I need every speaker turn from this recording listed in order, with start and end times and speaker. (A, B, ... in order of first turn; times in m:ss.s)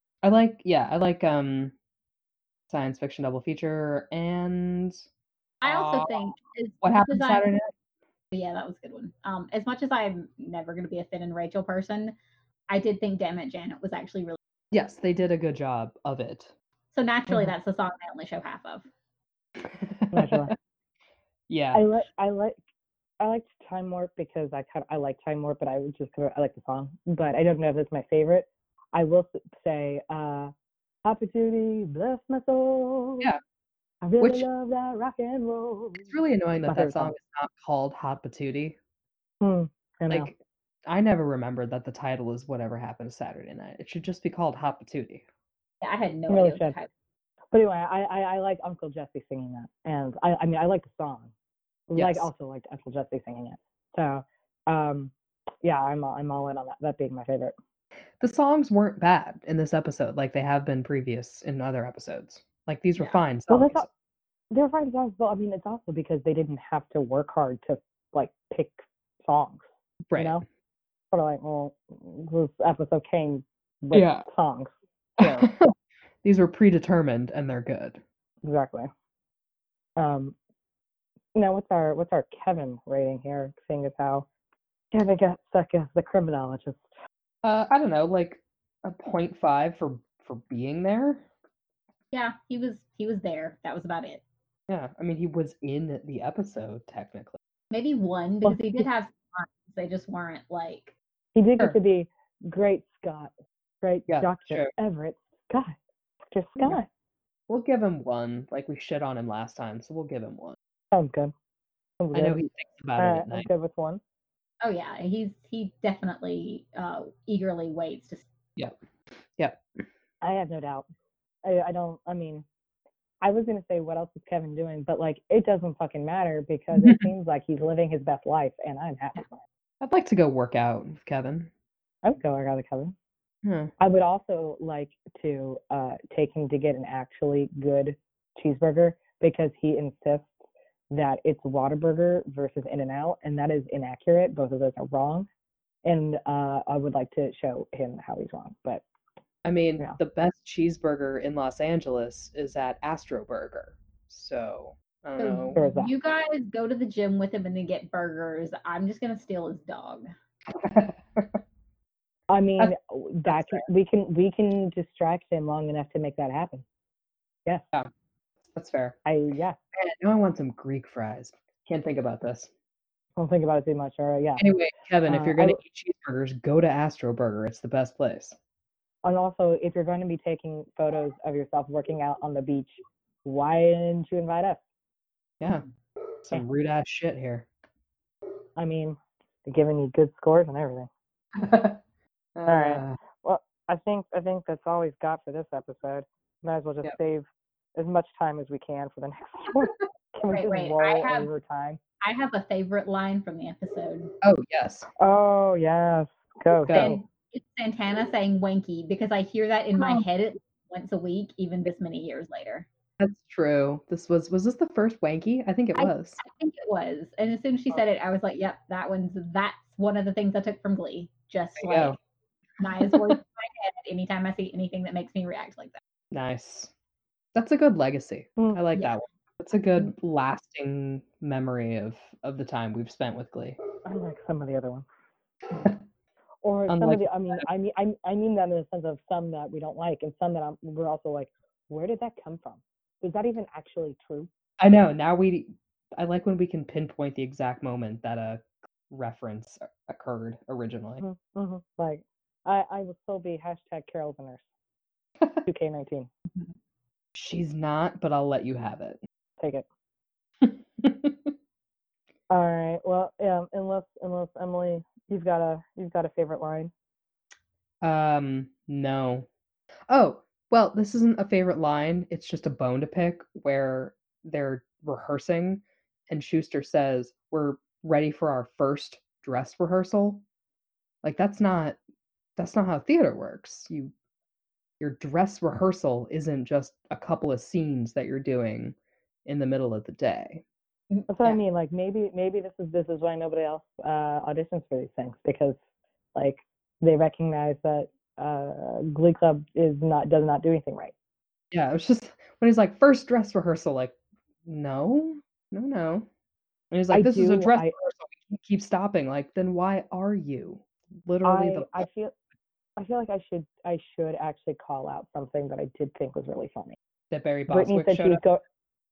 0:00.2-0:01.7 A
0:02.7-0:05.0 A
0:05.6-0:07.5 B
0:05.6-0:07.7 A
0:08.3-0:12.2 B
0:12.7-0:14.4 B
0:14.7-0:16.5 A
0:16.9-0:18.9 B
0:17.3-0:17.5 C
0:19.6-0:20.6 A
0:20.1-0:20.5 C
0:21.5-0:22.0 A
0:21.7-0:22.6 C
0:23.2-0:30.5 C
0:31.0-0:33.3 C
0:34.0-0:36.1 C
0:34.2-0:34.5 A
0:36.0-0:38.8 A
0:36.7-0:37.1 C
0:39.4-0:40.3 C
0:40.1-0:45.2 A
0:45.8-0:46.9 B
0:46.3-0:46.8 C
0:47.5-0:51.3 C
0:51.9-0:57.6 C
0:52.0-0:52.3 A
0:58.2-1:03.9 A
1:03.5-1:03.9 C
1:04.5-1:10.4 C
1:10.1-1:10.4 A
1:11.1-1:15.5 C
1:13.9-1:14.3 A
1:15.2-1:15.7 A
1:16.2-1:18.0 A
1:18.4-1:18.9 C
1:20.0-1:20.4 C
1:21.4-1:24.3 C
1:24.9-1:26.9 C
1:27.4-1:31.3 A
1:32.1-1:34.2 B
1:34.7-1:37.4 A
1:37.7-1:41.0 B
1:38.4-1:38.9 C
1:41.4-1:46.9 C
1:44.1-1:44.7 A
1:47.5-1:50.6 A
1:50.9-1:51.3 C
1:52.0-1:52.4 C
1:52.1-1:53.5 A
1:53.0-1:54.0 C
1:54.6-1:58.3 B
2:00.2-2:00.9 C
2:01.4-2:02.5 C
2:03.2-2:09.4 C
2:06.8-2:07.0 A
2:09.8-2:11.5 A
2:12.0-2:12.9 C
2:13.4-2:13.7 A
2:13.8-2:20.4 C
2:20.9-2:25.3 C
2:25.8-2:28.8 C
2:29.4-2:35.6 A
2:35.2-2:40.1 B
2:35.6-2:35.9 C
2:40.5-2:41.4 A
2:42.3-2:46.6 C
2:43.3-2:43.6 A
2:48.5-2:49.0 A
2:49.0-2:49.6 C
2:49.7-2:52.5 A
2:53.2-2:54.4 C
2:54.4-2:58.4 A
2:55.1-2:55.6 C
2:59.0-3:04.6 C
3:06.2-3:07.5 A
3:08.6-3:10.9 C
3:11.4-3:11.8 A
3:12.4-3:13.0 A
3:12.5-3:21.8 C
3:20.3-3:21.3 B
3:22.0-3:24.1 B
3:24.2-3:24.9 A
3:25.0-3:27.0 C
3:26.7-3:27.0 A
3:26.7-3:32.7 B
3:29.8-3:30.0 C
3:33.0-3:36.2 A
3:35.8-3:42.0 B
3:41.6-3:42.0 A
3:42.6-3:45.8 B
3:42.8-3:43.2 A
3:46.1-3:46.7 A
3:47.4-3:53.6 A
3:53.8-3:54.8 C
3:56.4-4:04.3 C
3:56.7-3:57.4 A
4:04.6-4:11.0 A
4:11.0-4:14.4 C
4:15.4-4:16.1 C
4:17.2-4:19.0 A
4:19.4-4:19.6 C
4:20.4-4:21.3 A
4:22.3-4:26.7 C
4:27.8-4:29.3 A
4:29.9-4:40.2 A
4:41.0-4:41.8 A
4:42.4-4:43.9 A
4:44.8-4:48.8 A
4:49.3-4:50.4 A
4:50.9-4:51.4 B
4:51.1-4:55.6 C
4:56.2-5:00.9 C
5:01.5-5:06.1 A
5:06.7-5:11.9 A
5:06.9-5:07.7 C
5:11.2-5:12.2 C
5:12.8-5:16.8 C
5:17.1-5:18.2 A
5:17.5-5:18.4 C